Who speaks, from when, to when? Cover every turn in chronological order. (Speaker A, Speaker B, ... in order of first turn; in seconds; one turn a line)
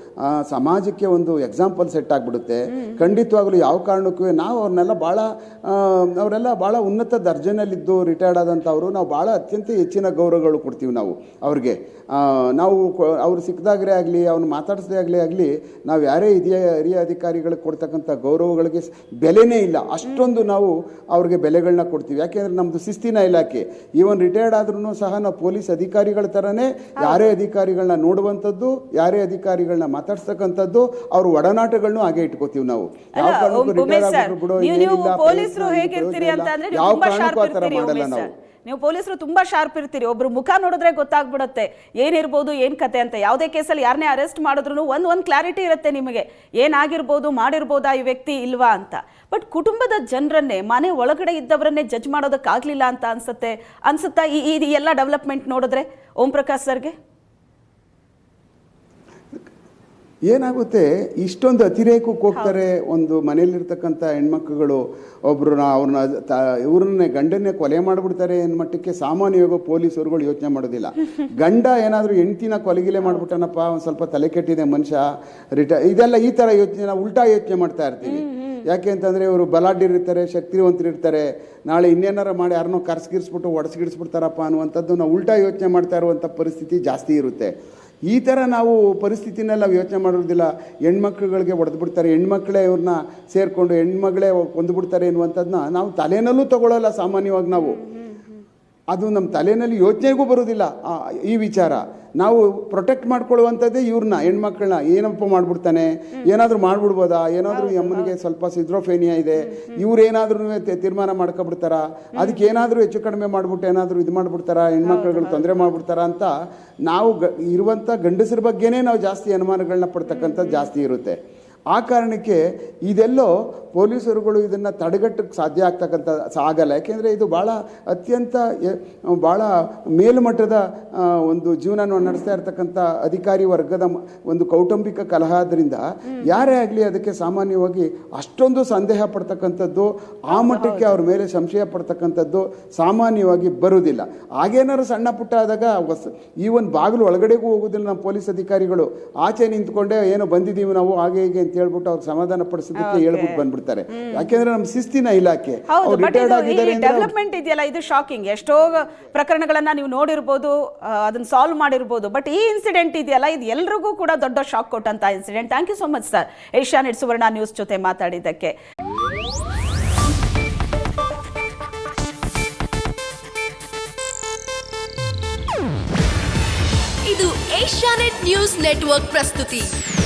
Speaker A: 0.2-38.3
Speaker B: 27.0-27.3
Speaker B: 33.2-57.0
Speaker A: 60.3-75.0
Speaker A: 75.6-87.5
Speaker B: 78.0-78.6
Speaker A: 88.1-97.8
Speaker B: 97.6-98.5
Speaker A: 98.9-116.3
Speaker B: 107.5-108.1
Speaker B: 109.5-109.8
Speaker B: 112.2-112.5
Speaker B: 114.8-115.7
Speaker A: 116.9-121.2
Speaker B: 120.1-120.7
Speaker A: 121.7-157.1
Speaker B: 140.3-141.0
Speaker B: 152.8-154.4
Speaker B: 155.7-168.6
Speaker C: 177.0-179.8